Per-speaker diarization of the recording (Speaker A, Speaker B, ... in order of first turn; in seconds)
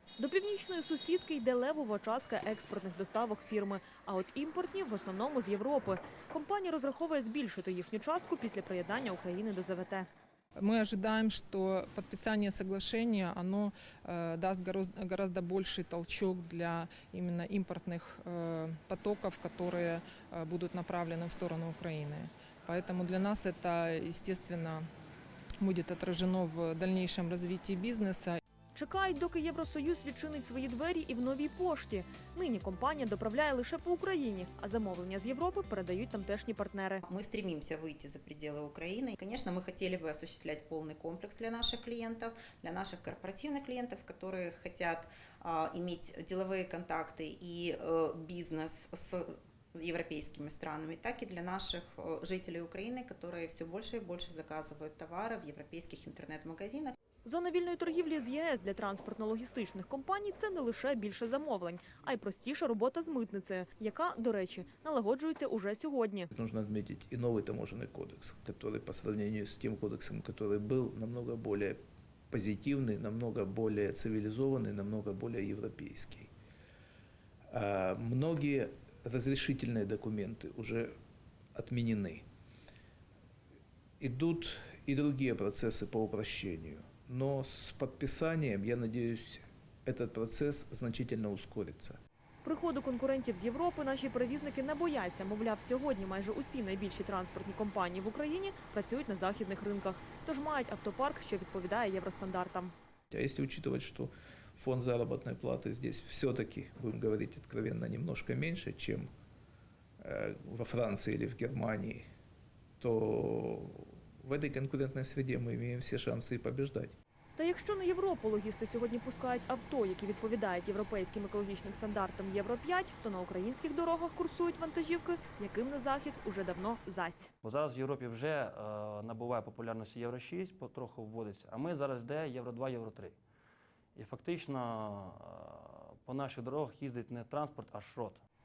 Speaker A: 0.2-10.1, 28.8-37.0, 57.2-66.3, 92.4-102.7, 117.4-127.3
Speaker B: 10.6-24.9, 25.6-28.4
Speaker C: 37.0-56.9
Speaker D: 66.3-71.8, 72.3-76.3, 77.5-80.9, 81.5-82.2, 84.0-92.0, 103.1-109.1, 110.0-112.1, 112.8-117.0
Speaker E: 127.4-133.2, 133.9-138.2